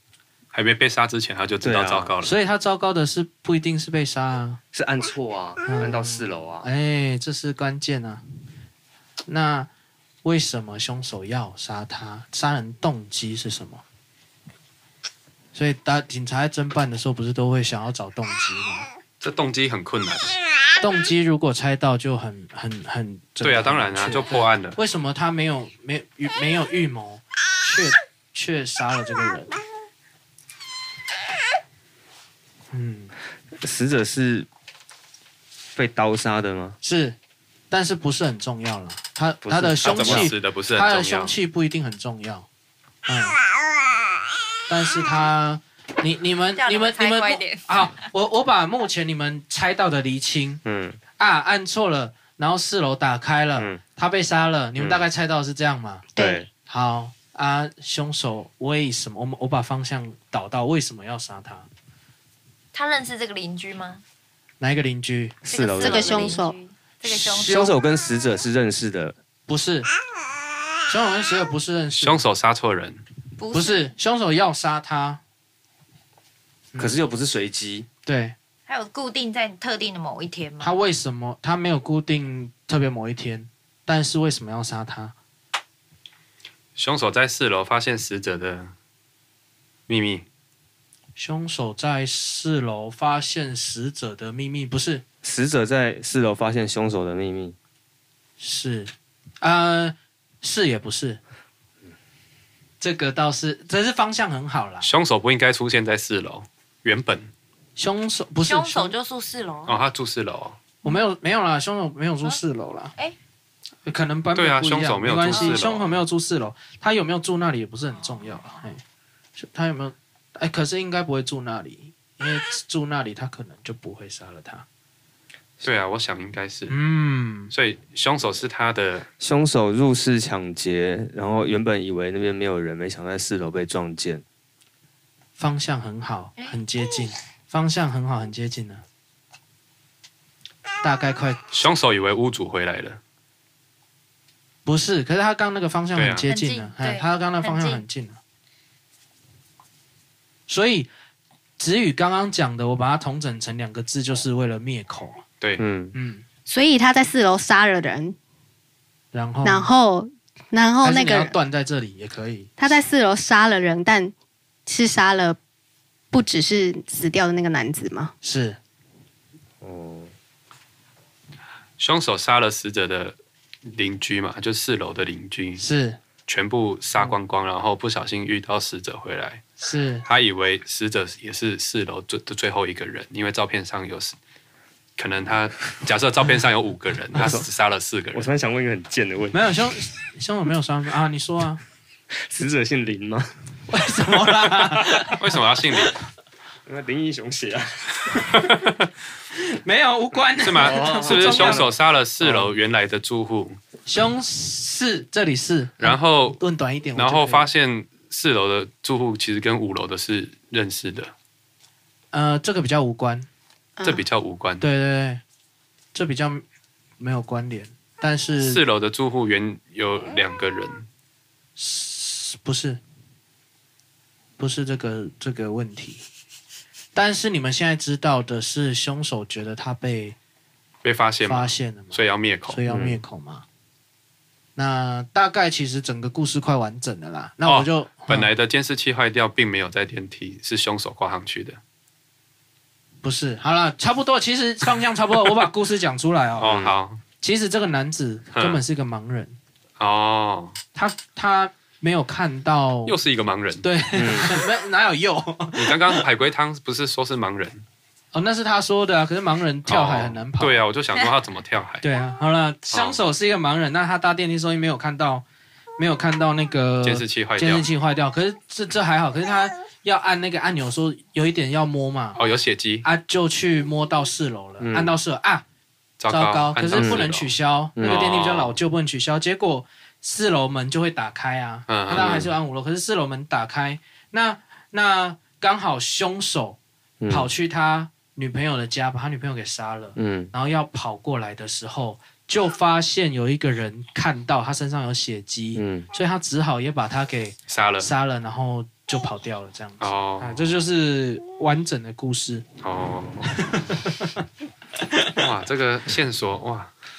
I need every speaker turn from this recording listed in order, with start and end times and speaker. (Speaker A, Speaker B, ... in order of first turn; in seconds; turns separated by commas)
Speaker A: 0.5-2.3, Speaker B: 1.6-2.1, Speaker C: 2.2-4.6, Speaker B: 4.7-6.7, Speaker C: 5.7-8.2, Speaker C: 9.3-9.7, Speaker C: 10.2-13.8, Speaker C: 15.5-18.9, Speaker A: 19.2-20.4, Speaker C: 20.8-29.6, Speaker A: 23.4-24.8, Speaker C: 32.7-33.1, Speaker B: 33.6-34.5, Speaker B: 35.7-36.8, Speaker C: 36.8-37.1, Speaker C: 37.7-42.5, Speaker B: 39.4-40.3, Speaker A: 39.8-41.4, Speaker C: 43.0-43.4, Speaker C: 44.7-50.6, Speaker D: 46.5-47.8, Speaker B: 50.6-51.0, Speaker C: 51.2-56.0, Speaker B: 53.5-53.8, Speaker B: 54.8-55.0, Speaker E: 56.1-56.4, Speaker B: 56.2-56.5, Speaker C: 56.7-61.7, Speaker D: 62.7-64.0, Speaker C: 64.6-65.3, Speaker B: 65.4-66.4, Speaker D: 65.5-67.6, Speaker E: 65.8-66.5, Speaker C: 67.1-67.8, Speaker B: 67.3-69.1, Speaker C: 69.5-69.9, Speaker C: 70.9-72.2, Speaker A: 72.0-73.0, Speaker D: 73.4-73.9, Speaker C: 73.5-75.2, Speaker B: 76.8-77.9, Speaker C: 78.0-78.3, Speaker D: 78.7-80.8, Speaker C: 80.6-85.1, Speaker A: 86.8-88.7, Speaker A: 89.9-90.2, Speaker C: 91.2-95.0, Speaker B: 95.2-97.5, Speaker C: 98.4-101.2, Speaker C: 102.8-104.9, Speaker A: 104.8-107.3, Speaker C: 107.8-108.9, Speaker D: 108.5-109.8, Speaker A: 109.7-110.6, Speaker C: 110.8-112.9, Speaker C: 113.8-118.8, Speaker A: 114.3-115.9, Speaker D: 115.3-115.6, Speaker C: 119.4-124.6, Speaker A: 125.6-126.7, Speaker C: 126.7-127.5, Speaker A: 127.5-129.1, Speaker B: 129.2-134.2, Speaker C: 135.4-138.8, Speaker C: 140.8-141.4, Speaker A: 141.5-143.0, Speaker C: 144.7-148.2, Speaker A: 145.9-146.3, Speaker D: 146.2-147.8, Speaker C: 150.5-150.9, Speaker C: 151.6-155.2, Speaker B: 155.6-155.9, Speaker C: 155.9-156.2, Speaker E: 156.5-158.2, Speaker C: 159.1-159.7, Speaker E: 159.4-161.3, Speaker C: 160.8-162.5, Speaker E: 162.6-164.1, Speaker E: 164.7-165.4, Speaker E: 166.1-168.1, Speaker C: 168.2-168.6, Speaker B: 169.6-170.1, Speaker A: 171.8-175.6, Speaker C: 175.6-176.0, Speaker A: 176.3-179.4, Speaker C: 179.6-180.1, Speaker A: 180.1-184.1, Speaker A: 185.0-188.3, Speaker B: 187.2-187.4, Speaker B: 188.1-189.6, Speaker C: 189.3-191.6, Speaker B: 192.3-193.3, Speaker C: 193.7-195.2, Speaker A: 195.2-195.9, Speaker B: 196.7-198.4, Speaker A: 198.3-198.8, Speaker C: 199.4-201.7, Speaker A: 200.4-203.6, Speaker B: 200.6-201.7, Speaker C: 203.8-207.4, Speaker A: 205.8-206.4, Speaker A: 206.9-211.1, Speaker C: 212.1-213.3, Speaker A: 213.8-214.6, Speaker C: 214.6-215.2, Speaker C: 215.9-216.4, Speaker C: 217.0-218.6, Speaker A: 218.4-220.8, Speaker C: 221.6-222.8, Speaker C: 224.4-226.0, Speaker C: 226.9-230.2, Speaker A: 230.8-232.6, Speaker C: 231.2-233.4, Speaker B: 232.7-233.0, Speaker C: 234.6-238.3, Speaker A: 237.4-241.6, Speaker C: 243.0-246.5, Speaker A: 246.4-247.0, Speaker B: 246.4-246.7, Speaker C: 247.2-249.4, Speaker A: 248.3-248.6, Speaker A: 249.8-250.6, Speaker C: 250.7-252.9, Speaker A: 252.8-253.6, Speaker C: 253.6-256.0, Speaker B: 253.9-254.4, Speaker A: 255.6-257.6, Speaker C: 258.1-260.6, Speaker A: 259.7-261.8, Speaker C: 261.8-265.2, Speaker A: 262.7-263.0, Speaker C: 265.8-272.2, Speaker A: 266.8-267.6, Speaker A: 272.2-272.9, Speaker C: 272.8-275.4, Speaker B: 274.6-274.9, Speaker A: 276.0-278.6, Speaker C: 276.1-286.6, Speaker B: 276.7-277.1, Speaker B: 277.8-278.0, Speaker A: 281.7-282.3, Speaker B: 281.9-282.2, Speaker B: 287.0-287.3, Speaker C: 287.1-302.4, Speaker B: 289.9-290.3, Speaker B: 295.5-295.9, Speaker A: 297.5-297.9, Speaker A: 299.8-300.4, Speaker A: 302.6-303.3, Speaker C: 303.3-304.1, Speaker C: 304.9-305.2, Speaker A: 305.2-306.7